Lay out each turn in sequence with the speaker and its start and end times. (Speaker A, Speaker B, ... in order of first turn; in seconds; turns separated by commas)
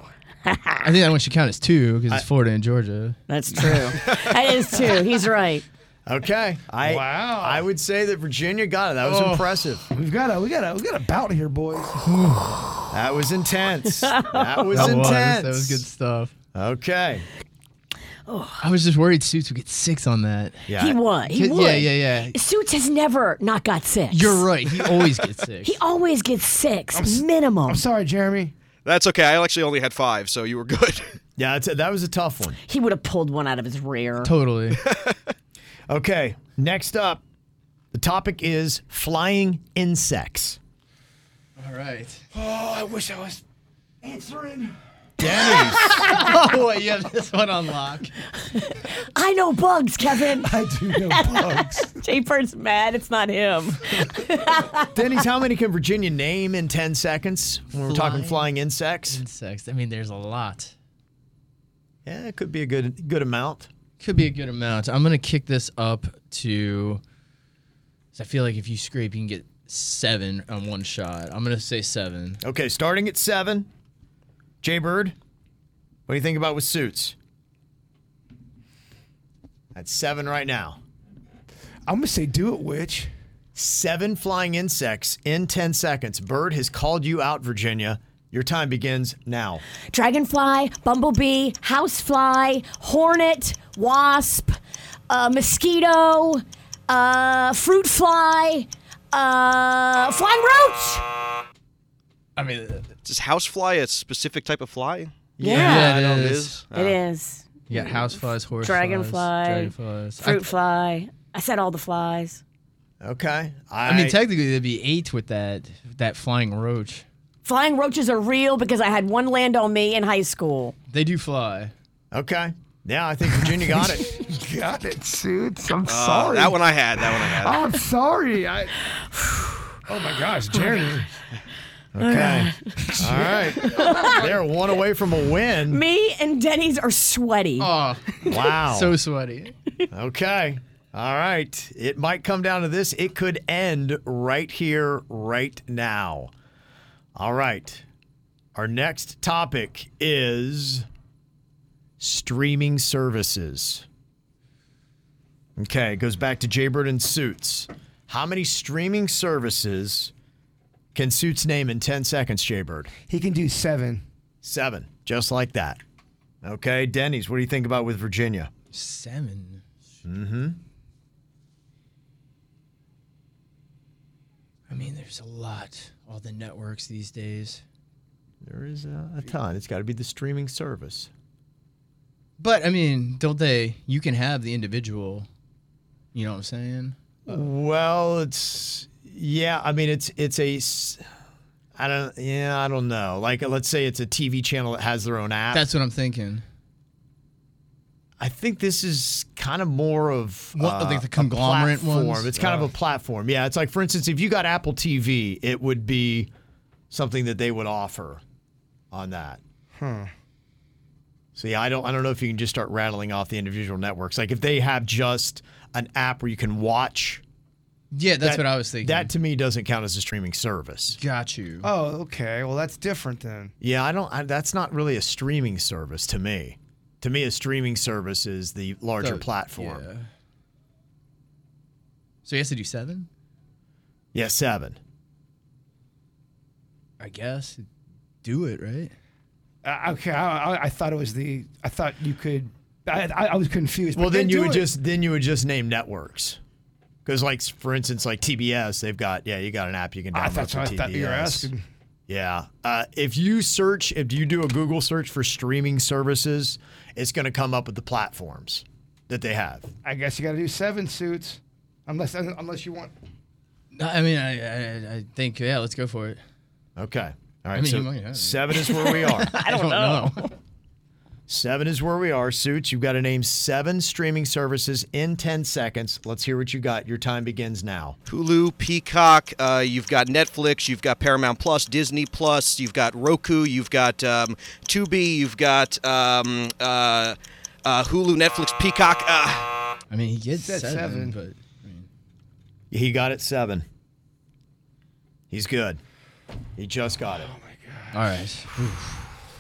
Speaker A: 0.5-0.9, Speaker B: 0.8-4.0, Speaker A: 3.3-5.7, Speaker C: 6.1-9.8, Speaker D: 6.8-7.7, Speaker B: 9.0-9.5, Speaker D: 9.9-12.0, Speaker B: 12.1-12.6, Speaker C: 12.9-15.8, Speaker A: 13.9-15.1, Speaker B: 14.7-16.3, Speaker C: 16.6-17.3, Speaker A: 18.3-18.6, Speaker B: 18.6-20.6, Speaker C: 20.7-21.0, Speaker A: 20.8-24.5, Speaker B: 21.3-22.4, Speaker B: 24.1-25.8, Speaker A: 25.6-27.8, Speaker D: 26.9-28.5, Speaker E: 28.9-31.1, Speaker C: 31.4-32.6, Speaker A: 32.7-34.3, Speaker B: 34.2-34.8, Speaker E: 34.8-35.2, Speaker C: 35.9-37.2, Speaker C: 37.9-40.6, Speaker B: 41.6-42.2, Speaker D: 42.3-43.4, Speaker D: 44.0-44.8, Speaker C: 45.2-45.9, Speaker B: 45.5-48.1, Speaker A: 48.5-55.0, Speaker D: 50.4-51.9, Speaker C: 54.9-59.2, Speaker B: 57.9-58.5, Speaker B: 59.1-60.7, Speaker C: 62.0-63.7, Speaker B: 64.0-67.0, Speaker B: 68.1-72.4, Speaker C: 72.4-73.7, Speaker C: 74.6-75.2, Speaker C: 76.1-77.2, Speaker C: 79.8-80.8, Speaker D: 81.9-83.1, Speaker C: 83.5-89.6, Speaker A: 89.9-94.6, Speaker A: 95.1-101.0, Speaker B: 102.4-102.9, Speaker E: 103.0-107.0, Speaker C: 105.4-105.8, Speaker A: 105.4-105.9, Speaker B: 105.5-106.6, Speaker A: 106.7-112.4, Speaker B: 107.7-110.5, Speaker C: 113.0-114.2, Speaker B: 113.8-117.0, Speaker A: 117.5-120.8, Speaker B: 120.9-121.7, Speaker C: 122.1-124.1, Speaker D: 123.7-128.7, Speaker E: 125.8-127.7, Speaker A: 129.1-129.7, Speaker D: 129.9-131.2, Speaker C: 131.9-135.8, Speaker A: 132.0-132.6, Speaker D: 132.8-134.3, Speaker A: 133.2-134.2, Speaker A: 135.7-137.7, Speaker B: 137.6-139.6, Speaker C: 138.3-139.0, Speaker C: 139.9-146.3, Speaker C: 147.2-147.8, Speaker C: 148.6-150.9, Speaker C: 152.0-153.8, Speaker C: 155.6-160.1, Speaker C: 160.9-162.9, Speaker D: 163.1-164.0, Speaker C: 164.4-165.8, Speaker C: 166.4-168.5, Speaker B: 168.7-169.7, Speaker C: 170.1-170.6, Speaker B: 174.7-177.6, Speaker C: 178.4-181.1, Speaker B: 182.4-185.3, Speaker B: 186.1-187.4, Speaker C: 187.3-191.0, Speaker C: 191.8-195.7, Speaker B: 195.5-196.4, Speaker C: 198.2-206.3, Speaker B: 200.6-202.7, Speaker C: 206.9-208.2, Speaker C: 208.9-209.4, Speaker D: 209.8-210.1, Speaker C: 211.3-217.2, Speaker B: 217.9-219.1, Speaker C: 218.2-221.0, Speaker B: 221.0-221.7, Speaker D: 221.6-223.5, Speaker C: 223.6-229.8, Speaker B: 229.0-230.1, Speaker B: 232.2-233.1, Speaker C: 234.1-234.8, Speaker B: 237.0-237.7, Speaker B: 238.2-238.9, Speaker D: 239.6-244.7, Speaker C: 243.9-246.4, Speaker C: 247.1-251.5, Speaker D: 250.1-251.6, Speaker C: 252.1-259.7, Speaker D: 259.8-262.9, Speaker B: 263.7-266.2, Speaker C: 266.8-269.3, Speaker B: 267.6-270.3, Speaker A: 268.6-270.3, Speaker C: 271.3-278.0, Speaker E: 278.1-289.6, Speaker B: 289.9-291.9, Speaker D: 290.4-291.2, Speaker C: 292.7-293.6, Speaker C: 295.3-295.8, Speaker C: 296.6-297.3, Speaker D: 297.1-298.0, Speaker B: 297.9-298.9